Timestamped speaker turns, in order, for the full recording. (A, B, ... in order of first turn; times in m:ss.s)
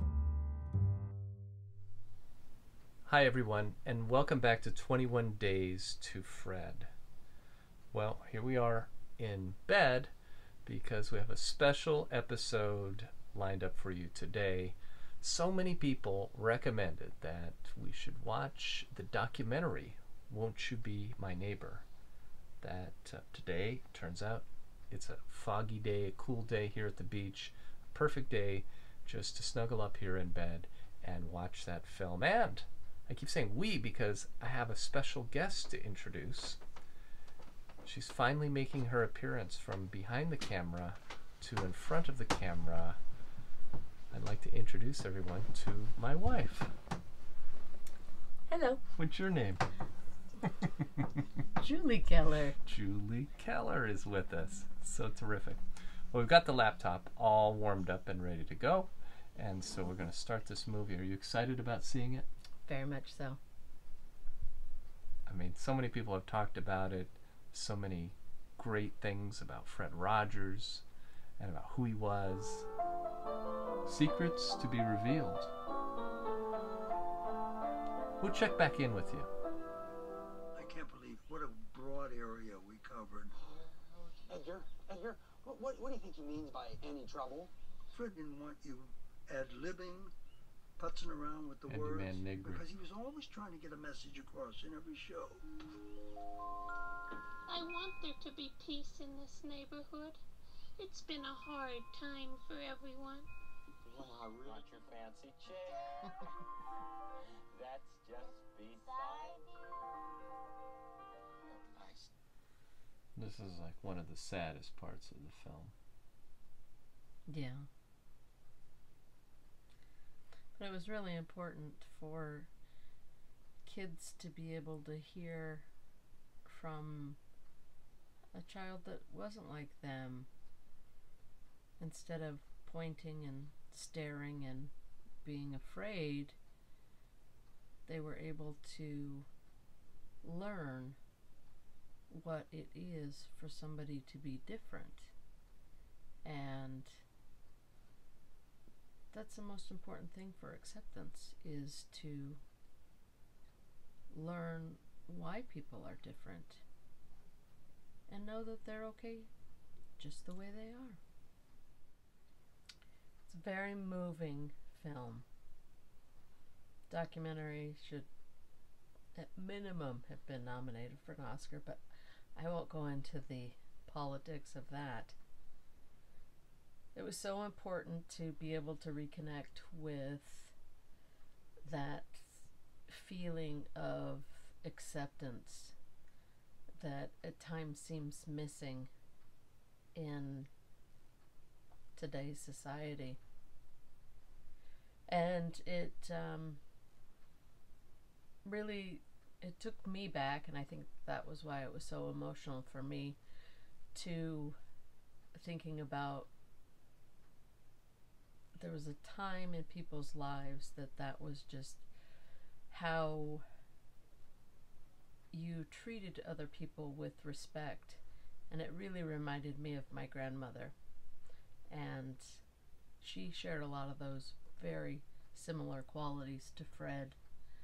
0:03.1-0:06.9 A
0:07.9-0:10.1 A
0:10.7-0:21.8 A
0:22.6-0:36.6 A
0:37.8-0:43.0 A
0:44.1-0:46.7 A
0:48.5-0:48.8 B
0:48.9-0:49.6 A
0:51.6-0:52.6 B
0:52.7-0:55.6 A
0:56.1-1:02.3 A
1:02.7-1:03.4 B
1:05.3-1:10.8 A
1:11.4-1:12.7 A
1:13.9-1:15.5 A
1:18.2-1:19.3 A
1:20.6-1:23.3 C
1:24.3-1:27.5 D
1:27.9-1:30.1 C
1:30.8-1:35.5 C
1:31.7-1:32.7 A
1:37.5-1:40.2 E
1:40.8-1:43.3 E
1:44.4-1:46.1 F
1:47.5-1:49.5 F
1:48.9-1:49.4 E
1:53.2-1:55.7 A
1:57.3-1:57.7 B
2:00.6-2:02.5 B
2:03.6-2:05.7 B
2:06.4-2:07.2 B
2:08.3-2:10.3 B
2:11.8-2:16.4 B
2:17.9-2:19.3 B
2:20.2-2:21.0 B
2:22.1-2:25.1 B
2:26.2-2:27.0 B
2:29.1-2:32.4 B
2:34.1-2:36.6 B
2:38.1-2:39.3 B
2:40.0-2:41.0 B
2:43.3-2:45.2 B
2:46.9-2:48.1 B
2:49.2-2:51.8 B
2:52.4-2:55.2 B
2:56.9-3:00.6 B
3:01.6-3:05.8 B
3:06.8-3:08.9 B
3:09.9-3:10.5 B
3:12.0-3:13.2 B
3:15.1-3:16.6 B
3:18.4-3:23.2 B
3:23.9-3:24.6 B
3:25.4-3:26.3 B
3:28.6-3:31.9 B
3:32.7-3:33.4 B
3:35.3-3:40.8 B
3:41.7-3:42.4 B
3:43.0-3:47.2 B